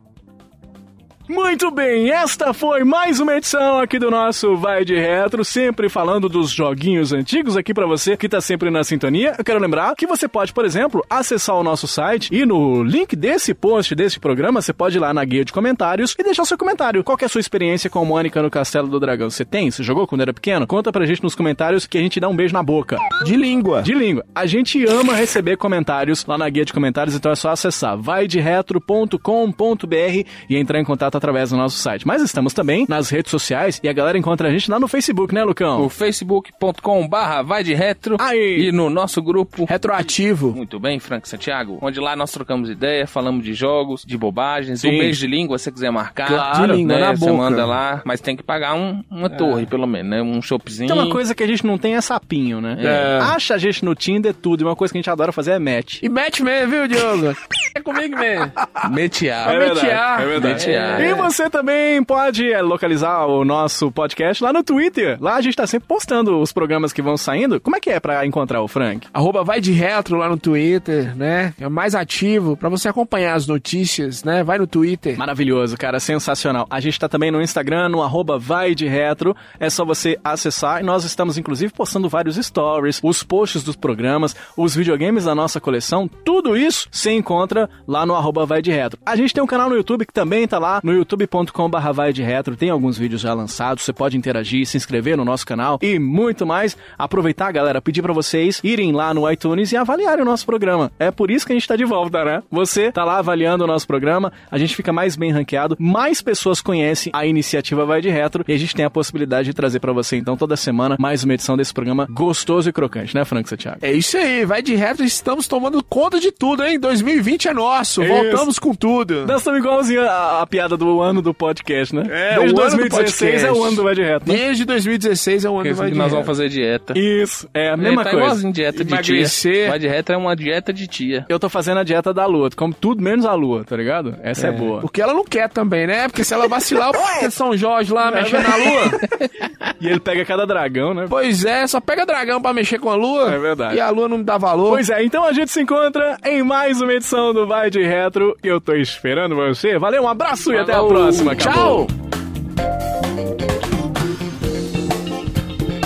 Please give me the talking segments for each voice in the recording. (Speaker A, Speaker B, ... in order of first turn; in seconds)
Speaker A: 1.3-23.1, 23.8-35.9, 38.2-38.7, 44.8-45.2, 50.9-56.0, 59.4-69.1, 75.2-113.8, 118.0-118.5, 119.2-124.4, 126.9-128.4, 131.3-134.9, 138.0-139.0, 139.8-141.1, 143.2-143.8, 144.7-151.9
Speaker B: 23.2-23.9, 39.7-40.6, 46.2-47.7, 49.3-49.7, 52.8-53.3, 56.0-58.6, 59.4-61.3, 69.1-75.2, 113.8-119.3, 122.1-126.3, 128.7-129.8, 134.3-139.0, 141.1-144.8, 151.3-151.9
Speaker C: 35.8-40.0, 40.5-51.2, 52.8-53.1, 58.8-59.5, 60.3-61.1, 125.6-127.0, 127.8-131.3, 150.5-151.7